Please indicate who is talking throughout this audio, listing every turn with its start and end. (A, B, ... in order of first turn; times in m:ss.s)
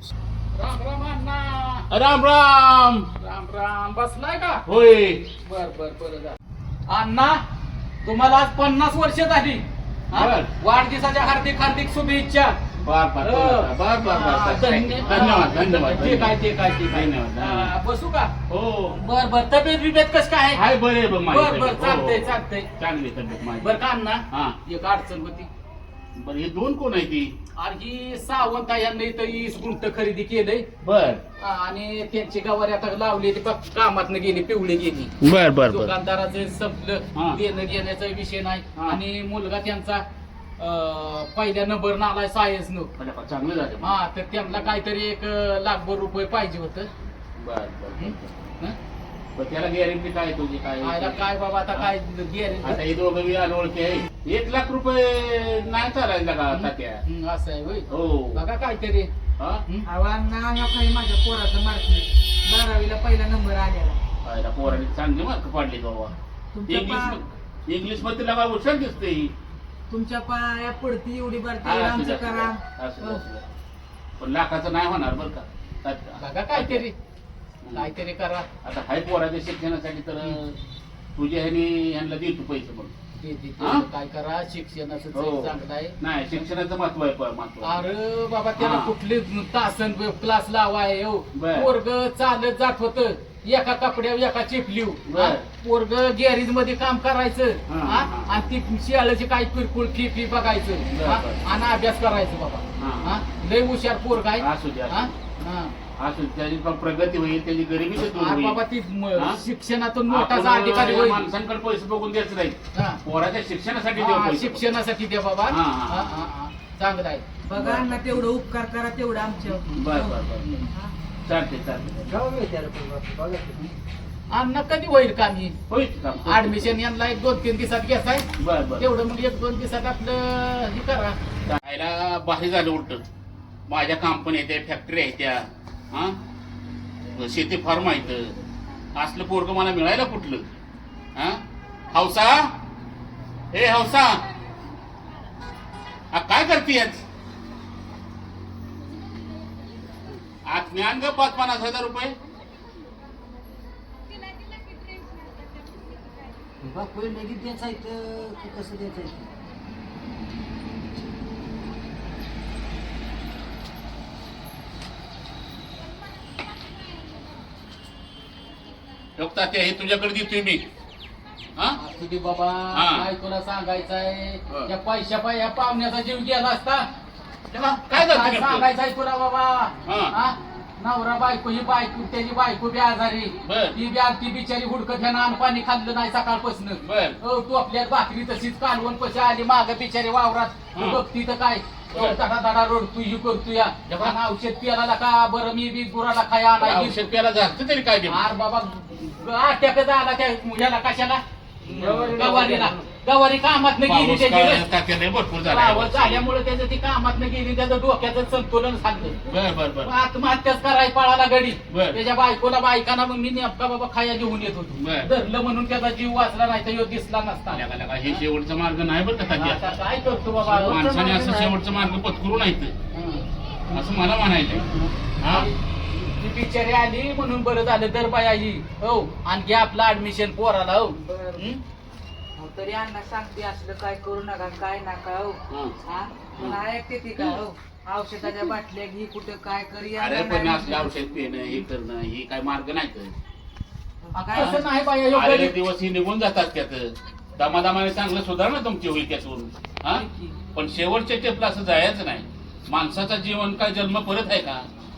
0:00.5-0:01.9 A
0:01.9-0:03.1 B
0:03.2-0:04.6 A
0:04.7-0:05.3 B
0:05.4-0:06.4 A
0:06.9-0:07.4 A
0:08.0-0:12.6 A
0:10.1-0:10.5 B
0:12.8-0:16.4 B
0:13.2-0:18.3 A
0:16.9-0:17.7 B
0:18.5-0:19.0 B
0:19.0-0:20.6 A
0:20.6-0:23.8 B
0:21.3-0:22.7 A
0:23.6-0:25.5 A
0:24.3-0:24.6 B
0:26.2-0:27.4 B
0:27.6-0:30.7 A
0:30.8-0:31.2 B
0:31.4-0:35.1 A
0:35.2-0:35.9 B
0:35.7-0:40.0 A
0:40.6-0:42.9 A
0:43.0-0:44.0 B
0:43.8-0:46.9 A
0:47.4-0:48.5 B
0:48.0-0:48.8 A
0:49.4-0:51.9 B
0:50.8-0:52.8 A
0:52.6-0:57.0 B
0:56.5-0:59.1 A
0:57.9-0:58.4 B
0:59.9-1:04.0 C
1:04.2-1:09.3 B
1:06.5-1:07.2 C
1:09.9-1:13.2 C
1:11.6-1:13.5 B
1:14.2-1:16.8 B
1:16.2-1:17.0 A
1:17.6-1:17.9 B
1:17.7-1:18.5 A
1:18.6-1:20.6 B
1:21.2-1:22.9 B
1:23.1-1:26.0 A
1:23.6-1:23.8 B
1:25.1-1:27.8 B
1:27.6-1:45.8 A
1:28.6-1:29.0 B
1:31.3-1:31.7 B
1:35.1-1:35.5 B
1:37.7-1:38.3 B
1:40.9-1:41.4 B
1:42.8-1:43.2 B
1:44.4-1:45.1 B
1:46.0-1:48.6 B
1:48.2-1:51.3 A
1:49.2-1:49.4 B
1:50.1-1:54.8 B
1:52.7-1:53.0 A
1:54.0-1:57.9 A
1:55.5-1:56.1 B
1:57.4-2:00.2 C
1:59.7-2:00.5 B
2:01.2-2:02.1 B
2:02.1-2:03.6 D
2:04.3-2:05.6 A
2:05.7-2:06.8 B
2:06.3-2:08.3 A
2:08.4-2:08.9 B
2:08.8-2:11.2 A
2:11.5-2:13.0 B
2:13.7-2:16.2 B
2:17.2-2:18.4 B
2:19.0-2:20.5 B
2:21.2-2:21.4 B
2:21.9-2:22.6 B
2:23.5-2:24.2 B
2:26.1-2:27.0 B
2:30.4-2:32.2 B
2:36.6-2:39.3 D
2:49.2-2:50.7 B
2:51.8-2:56.9 A
2:52.7-2:53.0 B
2:57.5-2:58.7 B
2:57.9-3:17.1 A
2:59.8-3:00.1 B
3:03.4-3:03.8 B
3:06.8-3:07.2 B
3:10.7-3:11.0 B
3:11.9-3:12.2 B
3:13.9-3:14.2 B
3:16.6-3:18.2 B
3:18.1-3:24.7 A
3:21.6-3:22.2 B
3:21.7-3:22.9 D
3:23.8-3:26.3 B
3:25.5-3:29.3 A
3:29.3-3:29.9 B
3:29.8-3:38.2 A
3:31.7-3:32.0 B
3:34.8-3:35.1 B
3:37.5-3:39.8 B
3:39.3-3:40.8 A
3:40.4-3:41.6 D
3:40.6-3:42.8 B
3:42.9-3:43.8 A
3:43.7-3:44.7 B
3:44.7-3:51.6 A
3:45.2-3:45.5 B
3:51.0-3:51.5 C
3:52.4-4:00.9 C
3:55.5-3:55.8 B
3:56.4-3:56.6 B
4:00.0-4:03.2 B
4:04.0-4:04.6 C
4:04.1-4:05.6 A
4:04.3-4:14.7 B
4:09.9-4:10.4 C